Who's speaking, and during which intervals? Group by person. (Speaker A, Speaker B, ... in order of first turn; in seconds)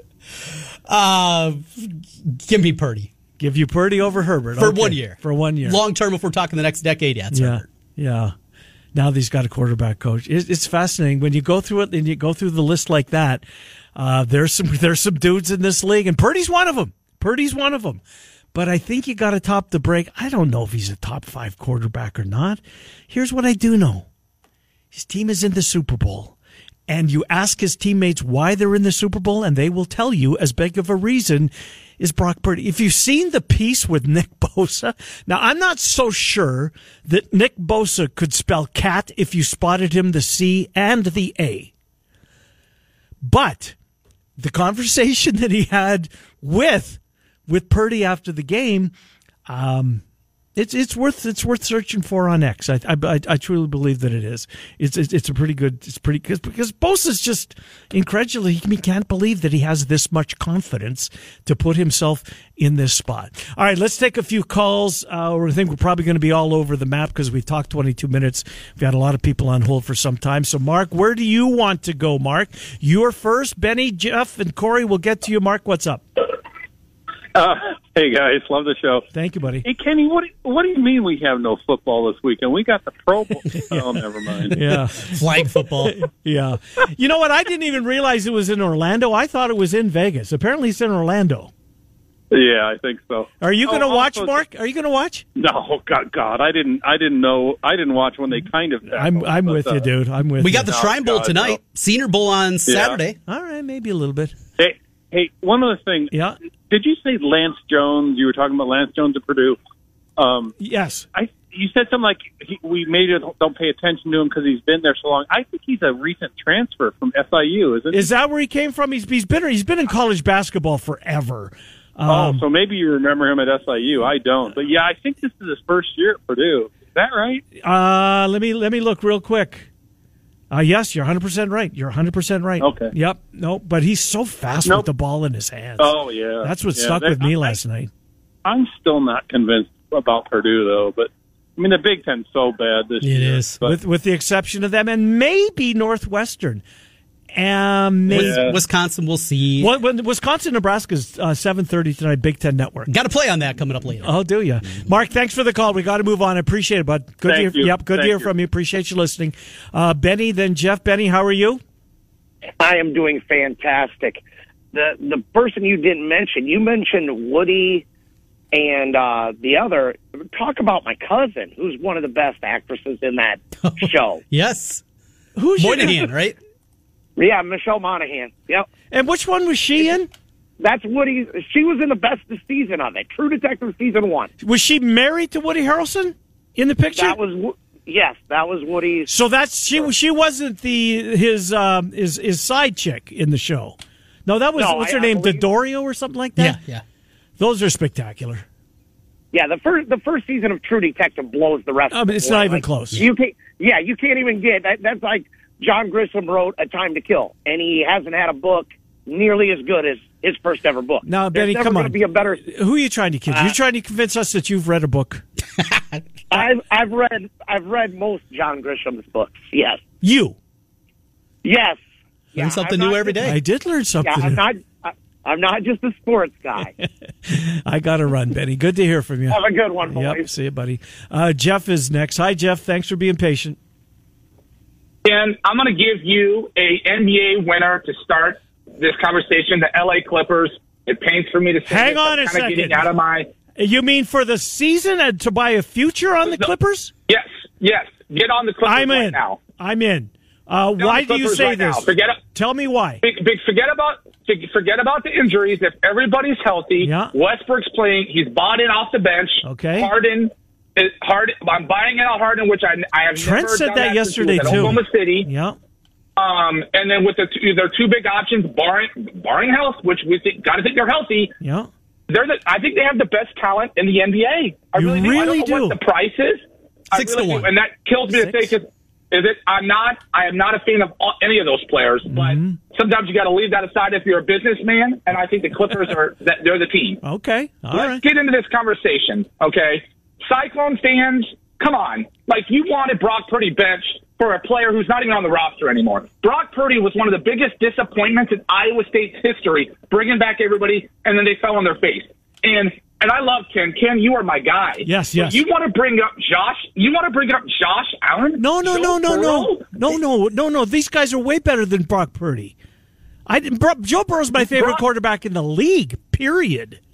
Speaker A: 0.9-3.1, 4.6-7.7, 85.0-86.0, 100.4-103.2, 143.0-143.6, 148.1-149.7, 152.9-154.2, 173.6-174.8, 175.6-176.4, 196.4-196.8, 215.7-216.0, 222.4-223.4, 276.9-277.5
Speaker B: 3.4-5.8, 7.3-8.3, 8.9-13.4, 14.0-18.0, 18.5-24.1, 24.9-26.4, 26.9-41.7, 43.2-43.8, 44.4-48.9, 49.5-50.0, 50.6-76.0, 79.1-79.7, 84.5-85.2, 85.8-91.5, 93.4-95.2, 98.9-100.7, 103.3-104.3, 106.1-106.4, 110.6-111.1, 117.9-122.4, 127.6-129.7, 130.5-137.9, 143.6-146.6, 147.3-148.5, 149.6-152.9, 154.0-161.6, 175.4-176.1, 178.9-180.1, 184.4-187.2, 189.1-196.6, 197.4-198.4, 201.9-203.0, 211.1-215.2, 220.0-220.4, 223.2-224.4, 226.8-233.6, 241.7-242.9, 243.6-246.9, 248.7-253.0, 256.8-257.1, 259.4-259.9, 263.1-265.6, 271.4-271.7, 274.8-275.8, 278.1-278.5, 282.1-282.6, 287.0-288.0, 304.9-305.4, 308.4-312.5, 313.3-316.8
Speaker C: 77.3-79.1, 79.6-84.6, 92.3-94.4, 95.4-99.9, 100.7-101.6, 102.7-103.0, 104.6-106.1, 106.7-109.6, 110.2-110.5, 111.1-118.1, 122.1-127.4, 132.6-132.9, 135.8-137.6, 138.4-143.8, 148.1-148.6, 157.2-158.3
Speaker D: 162.6-167.8, 168.5-174.2, 177.2-178.7, 180.6-184.3, 187.0-189.1, 194.6-195.4, 199.3-212.5, 213.3-213.6, 216.3-219.8, 221.4-221.8, 222.3-223.2, 224.0-226.7, 229.3-230.3
Speaker E: 235.1-243.3, 247.1-249.4, 250.8-252.2, 253.0-265.3, 266.2-271.3, 272.1-287.0, 287.7-310.0, 314.5-314.8